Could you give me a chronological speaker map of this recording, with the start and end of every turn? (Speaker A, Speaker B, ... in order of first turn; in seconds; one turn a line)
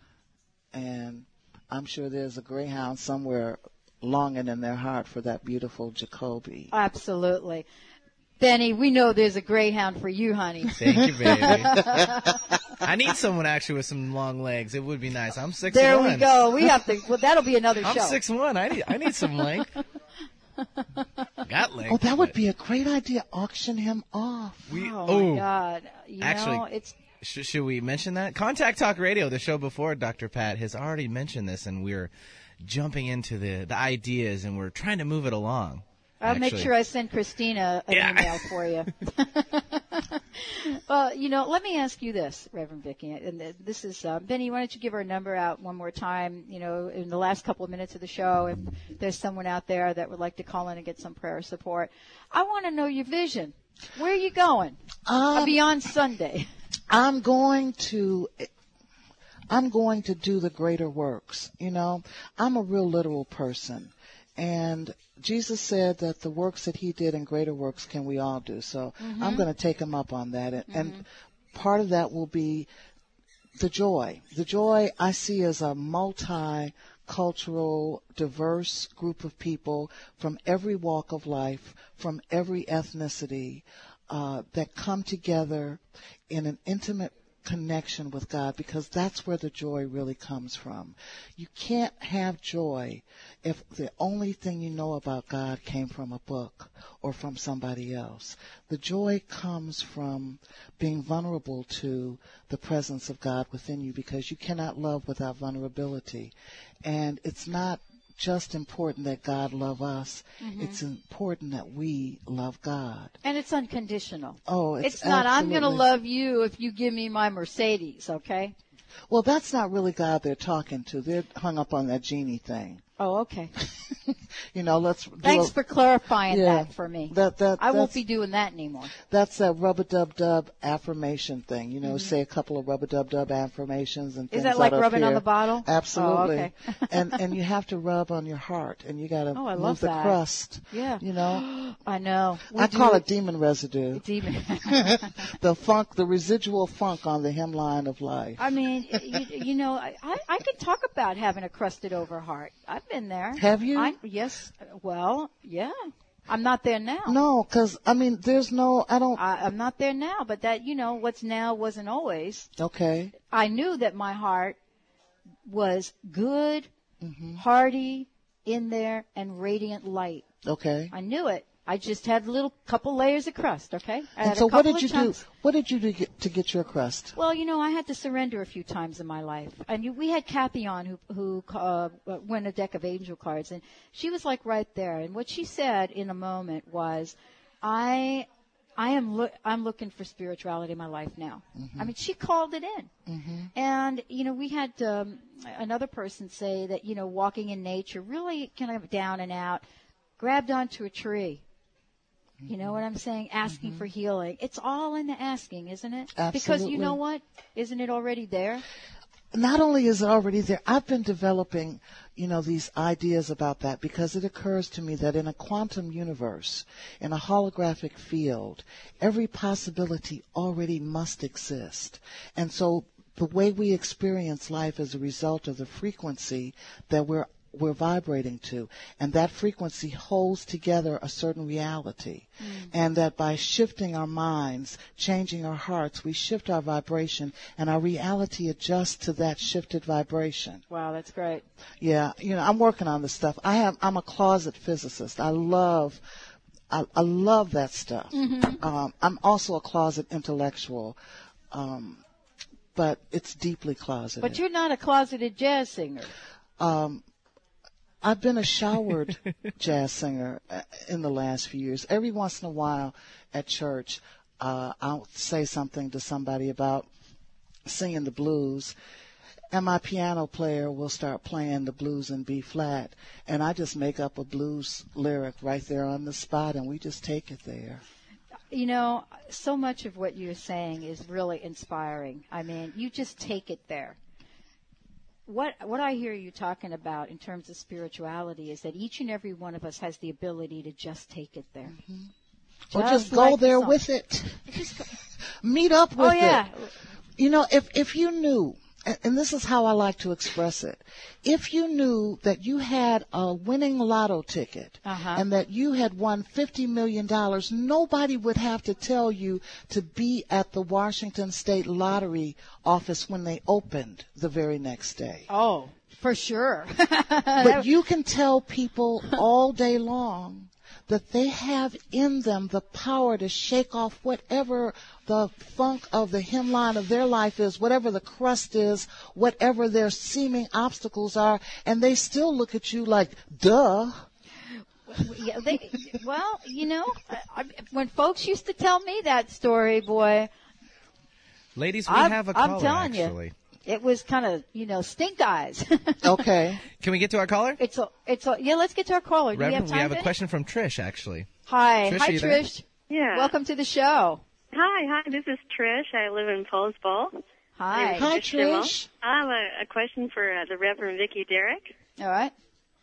Speaker A: 0.7-6.7
Speaker B: 6.7-7.7
Speaker B: 8.4-12.4
Speaker C: 10.8-11.9
Speaker A: 10.9-12.1
Speaker C: 12.8-16.4
Speaker B: 15.7-18.2
Speaker C: 17.8-19.8
Speaker B: 20.8-21.2
Speaker C: 21.4-22.3
Speaker A: 21.9-24.7
Speaker C: 24.7-25.5
Speaker B: 24.7-27.0
Speaker C: 26.2-26.6
Speaker C: 27.2-36.7
Speaker B: 36.2-54.8
Speaker C: 37.9-38.5
Speaker A: 55.1-55.6
Speaker B: 55.3-56.5
Speaker A: 56.9-58.5
Speaker A: 59.5-72.7
Speaker B: 69.0-69.5
Speaker B: 70.7-71.0
Speaker A: 73.6-113.2
Speaker B: 110.4-110.8
Speaker B: 113.2-118.5
Speaker A: 114.5-115.9
Speaker A: 119.1-122.8
Speaker B: 123.0-123.5
Speaker A: 123.6-125.5
Speaker B: 125.2-128.9
Speaker A: 126.3-128.0
Speaker A: 128.9-141.4
Speaker B: 131.8-132.1
Speaker B: 134.3-137.2
Speaker B: 139.3-143.0
Speaker A: 142.5-144.1
Speaker B: 143.9-145.3
Speaker A: 144.6-149.2
Speaker B: 148.4-155.8
Speaker A: 153.3-154.0
Speaker B: 156.3-157.2
Speaker A: 157.1-159.2
Speaker B: 159.2-162.5
Speaker A: 162.6-163.1
Speaker B: 163.3-164.6
Speaker B: 165.4-166.7
Speaker A: 167.0-167.4
Speaker B: 167.4-170.2
Speaker A: 170.4-170.9
Speaker B: 170.9-175.2
Speaker A: 174.2-177.2
Speaker B: 177.2-192.9
Speaker A: 191.6-191.9
Speaker A: 193.1-193.5
Speaker B: 193.5-199.6
Speaker B: 200.2-201.4
Speaker A: 202.4-202.8
Speaker B: 202.5-208.6
Speaker A: 203.5-203.9
Speaker A: 206.2-207.0
Speaker A: 209.3-240.6
Speaker B: 232.4-232.7
Speaker B: 240.7-241.4
Speaker A: 241.8-246.0
Speaker A: 246.7-251.0
Speaker B: 248.1-248.6
Speaker A: 251.5-252.0
Speaker A: 252.8-254.4
Speaker B: 254.2-256.1
Speaker A: 256.6-257.0
Speaker A: 258.0-266.9
Speaker A: 267.7-268.7
Speaker A: 269.5-277.8
Speaker B: 278.5-284.0
Speaker B: 285.3-291.8
Speaker A: 291.7-292.1
Speaker B: 292.7-293.8
Speaker A: 292.7-296.5
Speaker B: 294.5-294.9
Speaker B: 296.0-296.7
Speaker A: 297.2-315.3
Speaker B: 304.8-305.2
Speaker B: 315.3-317.7
Speaker A: 317.4-334.1
Speaker B: 334.9-340.3
Speaker C: 341.6-343.3
Speaker B: 341.9-343.1
Speaker B: 343.7-346.2
Speaker A: 346.0-346.6
Speaker C: 346.8-347.6
Speaker B: 347.6-350.1
Speaker C: 349.3-351.3
Speaker B: 351.5-354.2
Speaker C: 351.9-352.4
Speaker D: 352.9-353.3
Speaker D: 354.5-357.2
Speaker B: 357.6-358.1
Speaker D: 357.7-361.7
Speaker A: 357.9-358.9
Speaker B: 362.0-362.3